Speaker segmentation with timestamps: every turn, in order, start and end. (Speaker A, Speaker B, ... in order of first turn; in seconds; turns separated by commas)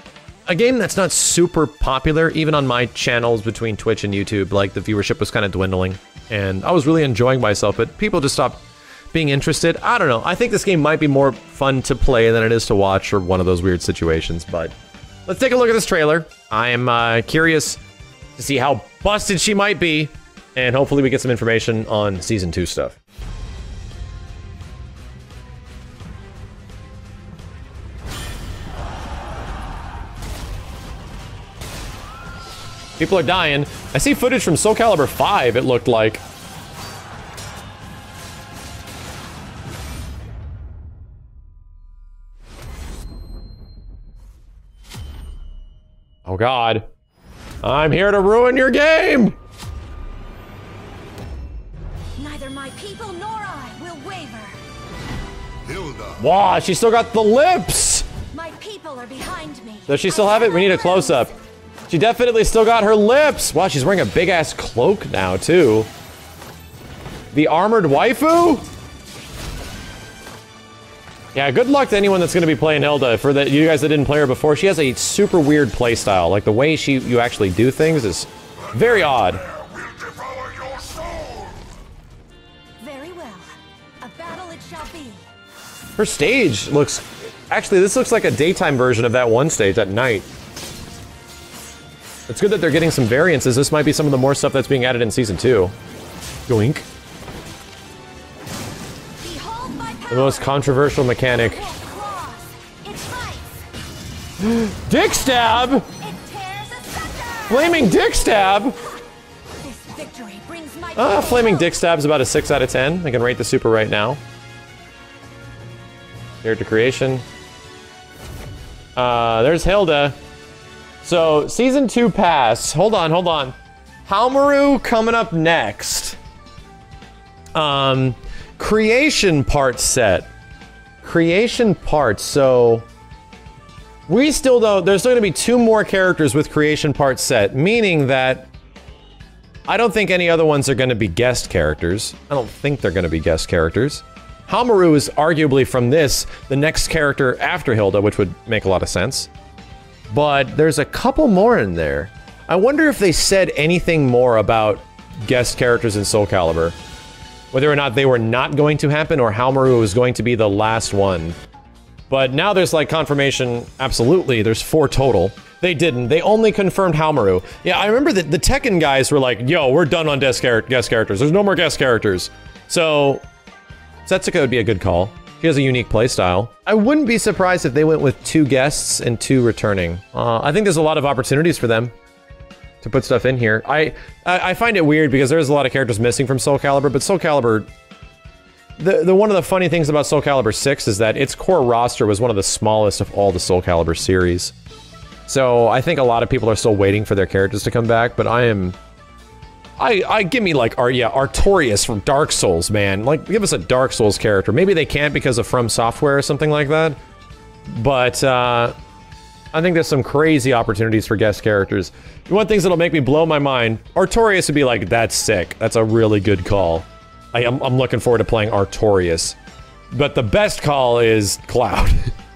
Speaker A: 0.5-14.7, Speaker A: 15.3-17.8, Speaker A: 18.4-23.0, Speaker A: 33.0-36.2, Speaker A: 46.2-46.9, Speaker A: 47.6-49.4, Speaker B: 52.2-54.6, Speaker A: 56.0-58.1, Speaker B: 58.3-61.3, Speaker A: 59.9-61.3, Speaker A: 61.9-65.9, Speaker A: 67.3-68.6, Speaker A: 71.3-79.5, Speaker B: 82.8-85.3, Speaker A: 86.0-90.3, Speaker A: 92.3-95.7, Speaker A: 96.5-96.8, Speaker B: 99.2-100.7, Speaker A: 100.1-101.7, Speaker B: 101.2-103.7, Speaker A: 104.4-105.9, Speaker B: 105.3-108.2, Speaker A: 107.5-108.8, Speaker B: 109.6-111.7, Speaker A: 111.0-114.2, Speaker A: 116.4-117.2, Speaker A: 119.0-120.2, Speaker A: 121.0-126.2, Speaker A: 127.5-130.3, Speaker A: 131.0-132.8, Speaker A: 134.1-138.5, Speaker A: 139.7-149.3, Speaker A: 150.1-156.8, Speaker A: 157.5-161.3, Speaker A: 162.1-173.2, Speaker A: 174.0-181.9, Speaker A: 182.8-187.7, Speaker A: 188.8-194.5, Speaker A: 195.2-198.8, Speaker A: 199.8-207.0, Speaker A: 207.7-208.7, Speaker A: 209.5-219.4, Speaker A: 219.9-222.1